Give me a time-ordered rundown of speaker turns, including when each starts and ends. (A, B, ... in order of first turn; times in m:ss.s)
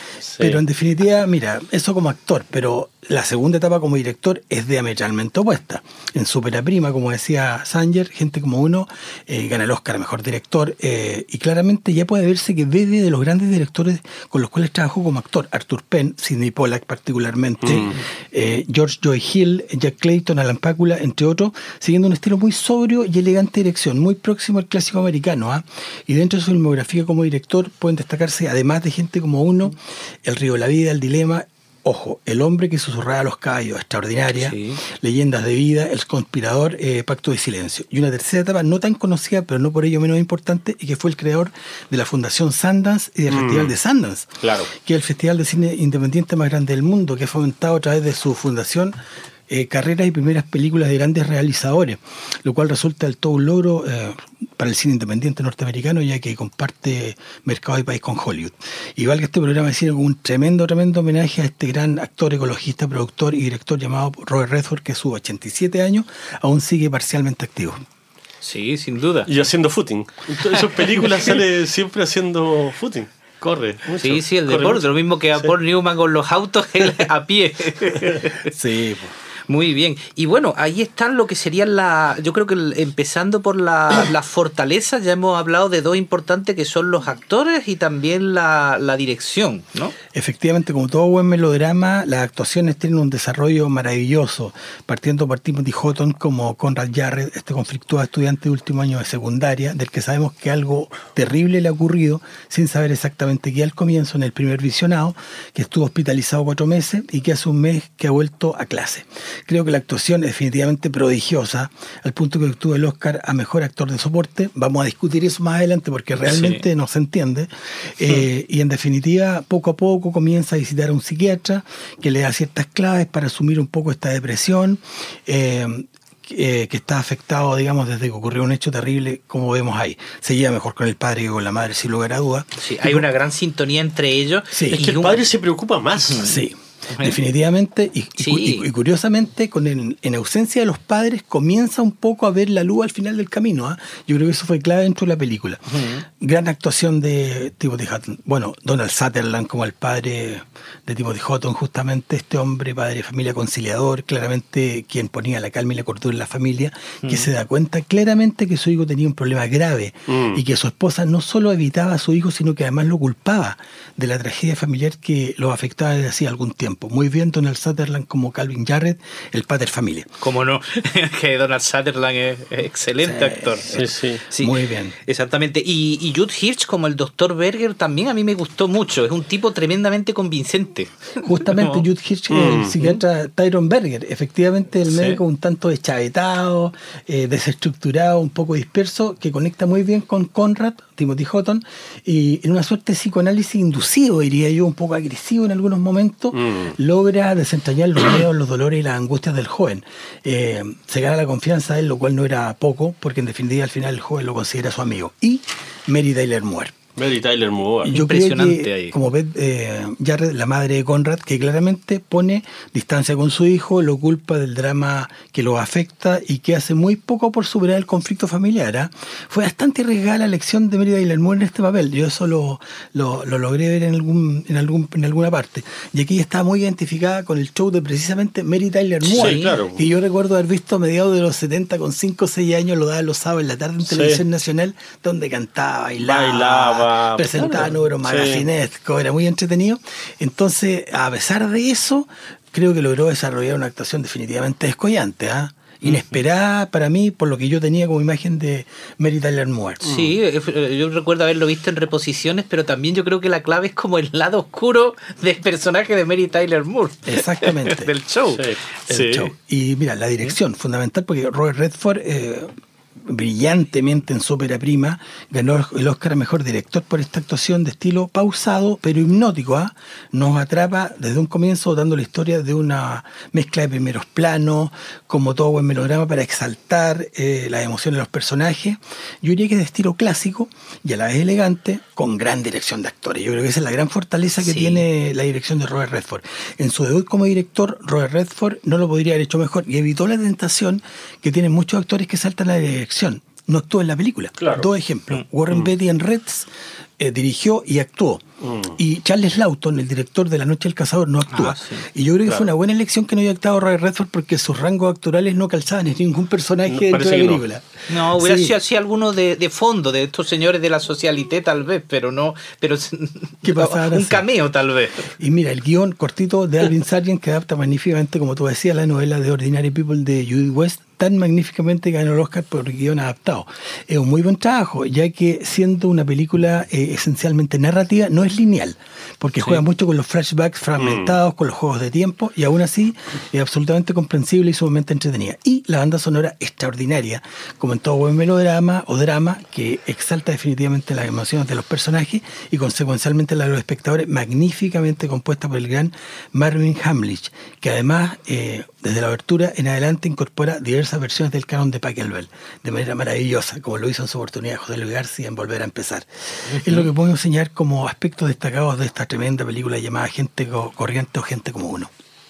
0:00.3-0:00.6 A
0:00.4-0:49.0 B
0:17.6-0:18.0 A
0:34.3-0:34.8 C
0:43.3-0:43.7 A
0:44.4-0:44.7 A
0:49.5-1:07.8 B
1:08.4-1:09.3 C
1:09.3-1:14.8 A
1:10.5-1:10.8 C
1:14.0-1:18.5 C
1:18.4-1:19.1 B
1:19.5-1:29.9 C
1:30.1-2:13.0 B
1:56.3-1:56.6 C
2:12.6-2:15.2 C
2:14.5-2:14.8 B
2:14.7-2:16.4 A
2:16.1-2:16.3 C
2:16.2-2:50.1 B
2:16.9-2:17.2 C
2:18.2-2:18.7 C
2:25.7-2:26.0 C
2:37.0-2:37.3 C
2:40.1-2:40.4 A
2:50.2-3:01.8 C
2:53.0-2:54.9 B
2:53.7-2:54.2 A
3:01.2-3:26.8 B
3:02.3-3:02.8 A
3:04.9-3:05.2 C
3:16.3-3:16.7 A
3:27.0-3:28.0 A
3:27.8-4:09.9 B
3:27.9-3:28.9 C
3:49.0-3:49.6 C
3:49.2-3:49.8 A
3:53.8-3:54.2 A
3:56.0-3:58.4 A
4:09.8-4:18.5 C
4:17.0-4:17.9 B
4:18.3-4:19.3 A
4:18.9-5:08.5 B
4:44.4-4:44.8 C
4:54.4-4:54.7 A
4:58.4-4:58.8 A
5:01.3-5:01.8 C
5:06.7-5:07.4 A
5:07.9-5:15.1 C
5:13.4-5:14.2 B
5:15.1-6:01.9 B
5:30.8-5:31.1 A